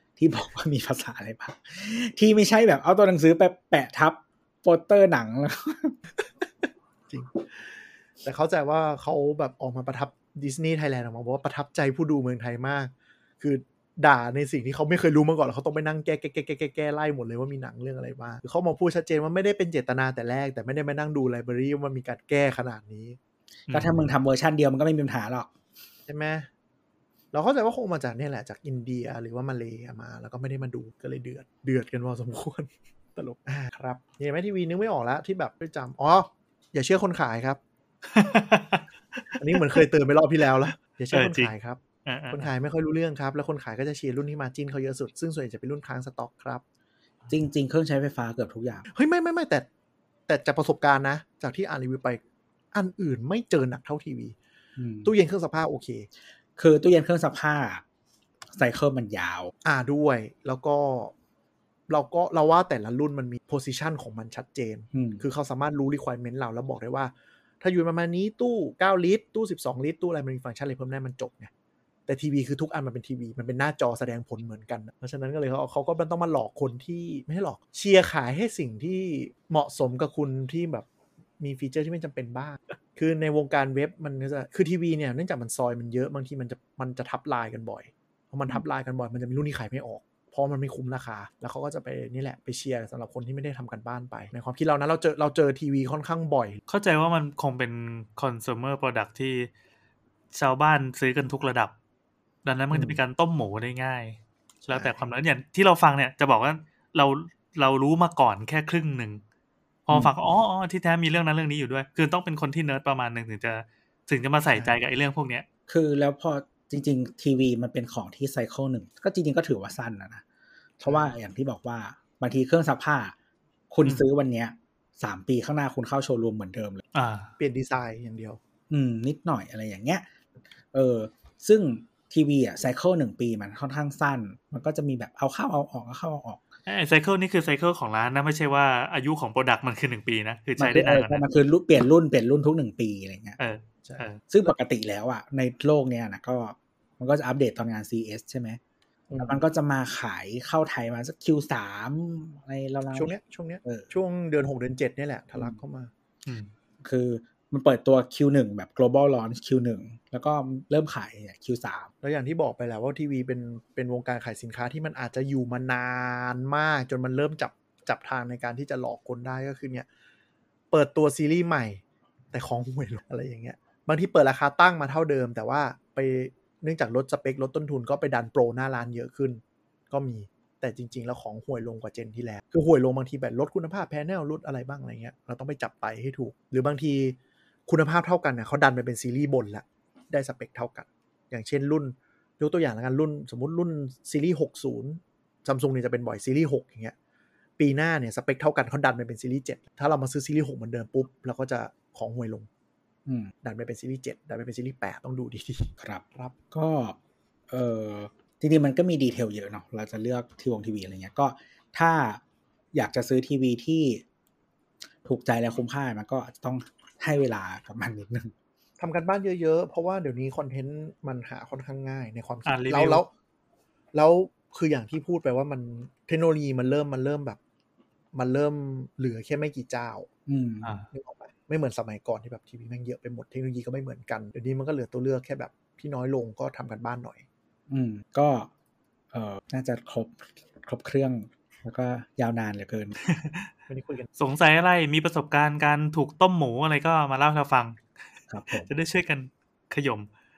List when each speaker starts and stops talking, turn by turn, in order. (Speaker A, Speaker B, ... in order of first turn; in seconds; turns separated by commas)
Speaker A: 0.2-6.0, Speaker B: 7.1-23.2, Speaker A: 23.7-25.5, Speaker C: 23.7-24.1, Speaker B: 26.1-26.5, Speaker B: 27.3-37.6, Speaker C: 38.1-39.8, Speaker B: 39.4-41.8, Speaker C: 41.1-41.5, Speaker C: 42.0-42.5, Speaker B: 42.3-46.6, Speaker A: 47.3-48.9, Speaker B: 48.9-49.7, Speaker B: 50.3-52.2, Speaker B: 52.7-54.4, Speaker A: 54.8-55.1, Speaker B: 55.0-56.1, Speaker A: 56.6-57.8, Speaker A: 58.5-59.5, Speaker B: 59.6-61.1, Speaker B: 61.9-71.5, Speaker A: 64.9-65.2, Speaker B: 72.1-80.9, Speaker B: 81.4-96.6, Speaker C: 96.7-99.5, Speaker C: 100.3-101.7, Speaker C: 102.5-109.2, Speaker B: 102.7-103.0, Speaker B: 104.7-105.0, Speaker C: 109.9-115.5, Speaker A: 115.7-120.2, Speaker A: 120.8-123.2, Speaker B: 120.9-121.1, Speaker A: 123.7-126.8, Speaker C: 127.0-127.3, Speaker B: 127.4-128.4, Speaker A: 128.7-130.1, Speaker A: 130.7-136.4, Speaker C: 136.7-141.2, Speaker A: 140.6-143.4, Speaker C: 143.4-144.2, Speaker B: 143.8-144.5, Speaker A: 144.3-148.6, Speaker B: 149.1-149.4, Speaker A: 149.2-153.1, Speaker B: 152.9-155.9, Speaker A: 153.7-153.9, Speaker C: 156.3-156.5, Speaker A: 156.8-161.9, Speaker B: 162.0-169.9, Speaker B: 170.7-171.8, Speaker B: 172.3-196.9, Speaker B: 197.6-202.5, Speaker A: 203.1-203.3, Speaker B: 203.4-206.3, Speaker A: 205.8-207.0, Speaker A: 207.5-212.2, Speaker A: 212.7-214.0, Speaker A: 215.1-218.3, Speaker B: 218.8-223.1, Speaker C: 222.5-223.0, Speaker B: 223.9-227.4, Speaker B: 228.1-230.1, Speaker A: 230.3-230.8, Speaker B: 230.9-237.2, Speaker A: 237.7-238.5, Speaker A: 239.1-242.9, Speaker C: 243.0-243.5, Speaker B: 243.7-244.1, Speaker C: 244.2-247.8, Speaker A: 248.3-248.7, Speaker C: 248.5-250.1